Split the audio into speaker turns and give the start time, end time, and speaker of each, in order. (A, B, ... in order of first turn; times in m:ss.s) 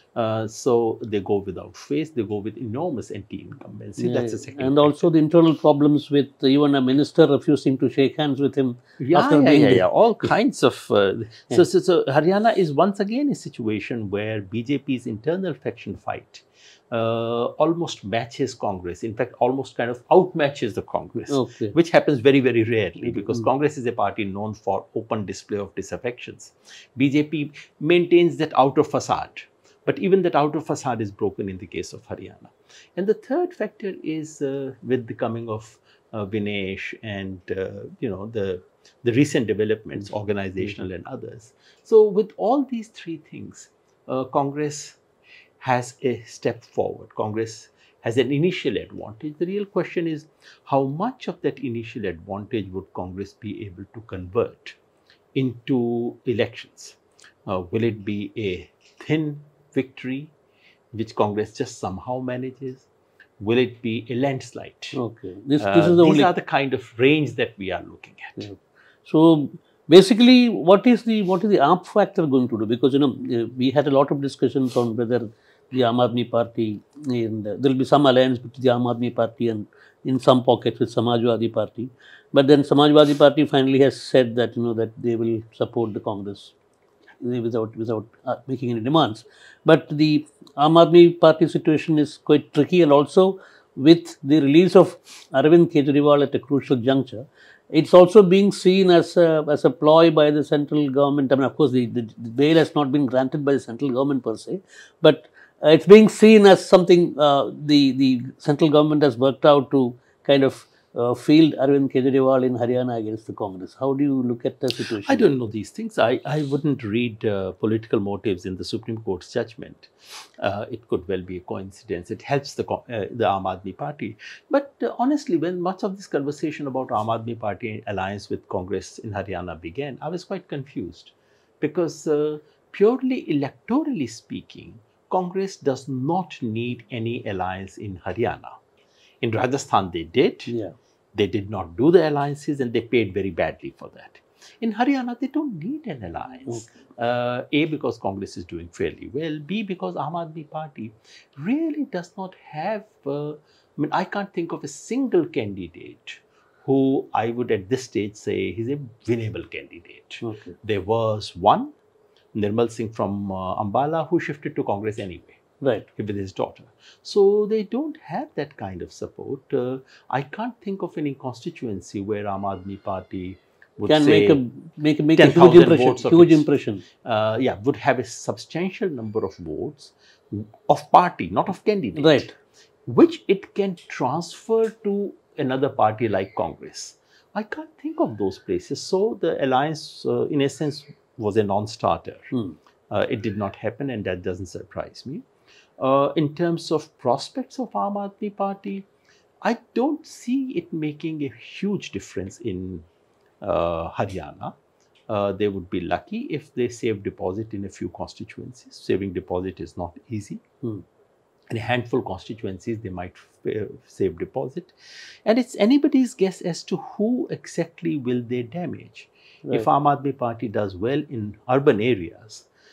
0:00.1-0:05.1 A
0:04.0-0:09.8 B
0:09.0-0:45.0 A
0:21.2-0:21.7 B
0:23.0-0:23.4 B
0:45.6-0:54.8 A
0:55.3-1:00.3 A
1:00.9-1:02.9 A
1:03.4-1:05.0 A
1:04.9-1:06.3 B
1:05.6-1:08.5 A
1:08.4-1:26.5 B
1:27.2-1:55.3 B
1:55.0-2:18.6 A
2:19.2-2:20.5 A
2:20.5-2:20.8 B
2:21.1-2:41.7 A
2:40.2-2:40.6 B
2:42.3-2:45.4 A
2:45.6-2:45.9 B
2:46.0-2:54.4 A
2:53.9-2:56.8 B
2:55.2-2:56.5 A
2:57.0-3:02.3 A
3:02.0-3:02.3 B
3:02.8-3:12.3 A
3:12.9-3:15.2 A
3:15.8-3:18.9 A
3:19.4-3:22.8 A
3:23.4-3:24.6 A
3:25.1-3:30.4 A
3:31.5-3:34.7 A
3:35.2-3:42.5 A